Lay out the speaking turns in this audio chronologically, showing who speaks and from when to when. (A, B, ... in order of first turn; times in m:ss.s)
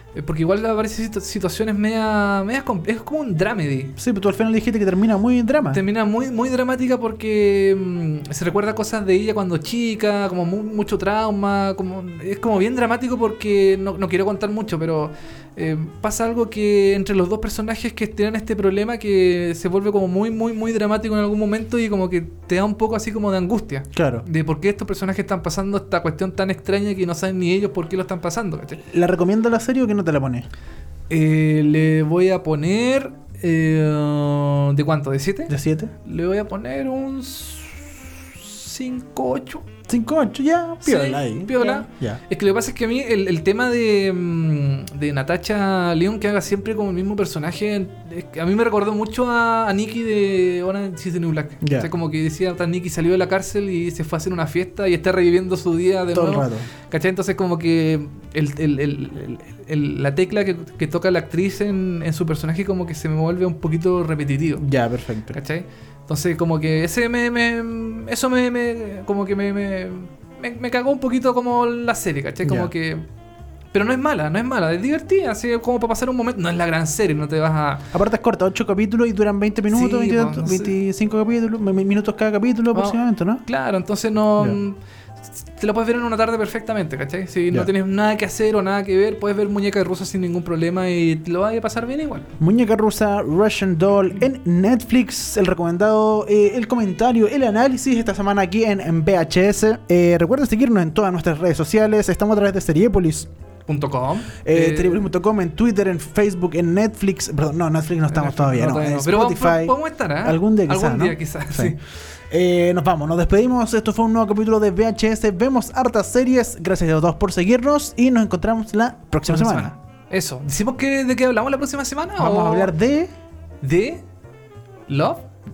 0:00.1-0:03.9 A
0:04.0-0:05.8 B
0:05.7-0:28.8 A
0:23.9-0:24.2 B
0:28.8-0:30.5 B
0:31.1-0:39.6 A
0:35.5-0:35.9 B
0:39.9-0:42.2 B
0:40.8-1:04.6 A
0:51.6-0:51.9 B
0:56.1-0:56.7 B
1:04.6-1:05.4 B
1:05.3-1:13.0 A
1:12.4-1:12.7 B
1:13.7-1:17.8 A
1:17.9-1:23.4 B
1:19.7-1:20.8 A
1:22.7-1:24.8 A
1:25.6-1:32.3 A
1:32.4-1:43.3 B
1:43.7-1:45.1 A
1:44.4-1:51.8 B
1:48.1-1:51.8 A
1:52.3-1:59.7 B
1:59.3-2:02.7 A
2:02.2-2:03.1 B
2:03.6-2:04.0 A
2:04.9-2:05.2 A